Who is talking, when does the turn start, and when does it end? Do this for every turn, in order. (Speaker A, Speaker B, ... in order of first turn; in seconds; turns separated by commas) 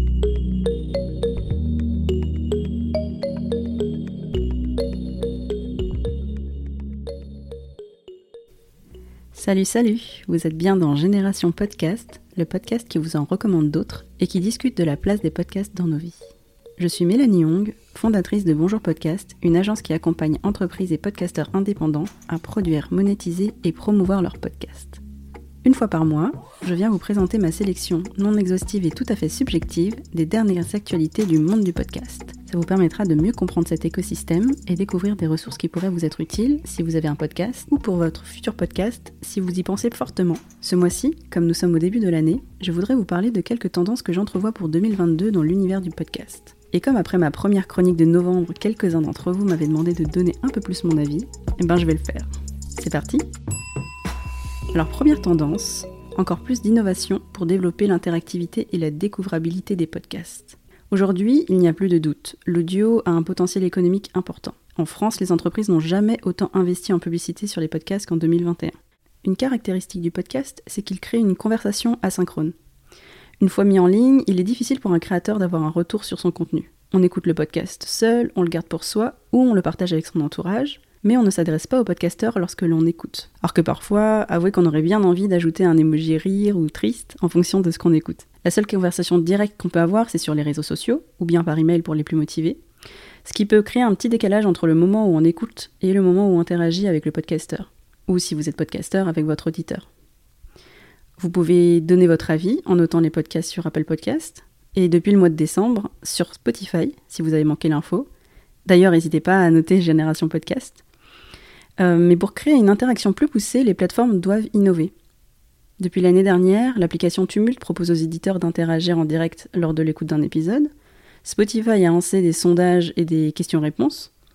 Speaker A: 9.3-16.2, Speaker A: 16.8-25.0, Speaker A: 25.6-53.3, Speaker A: 54.7-72.5, Speaker A: 73.4-92.6, Speaker A: 93.2-99.9, Speaker A: 101.2-108.1, Speaker A: 108.7-110.8, Speaker A: 111.8-114.9, Speaker A: 115.8-120.7, Speaker A: 121.2-124.1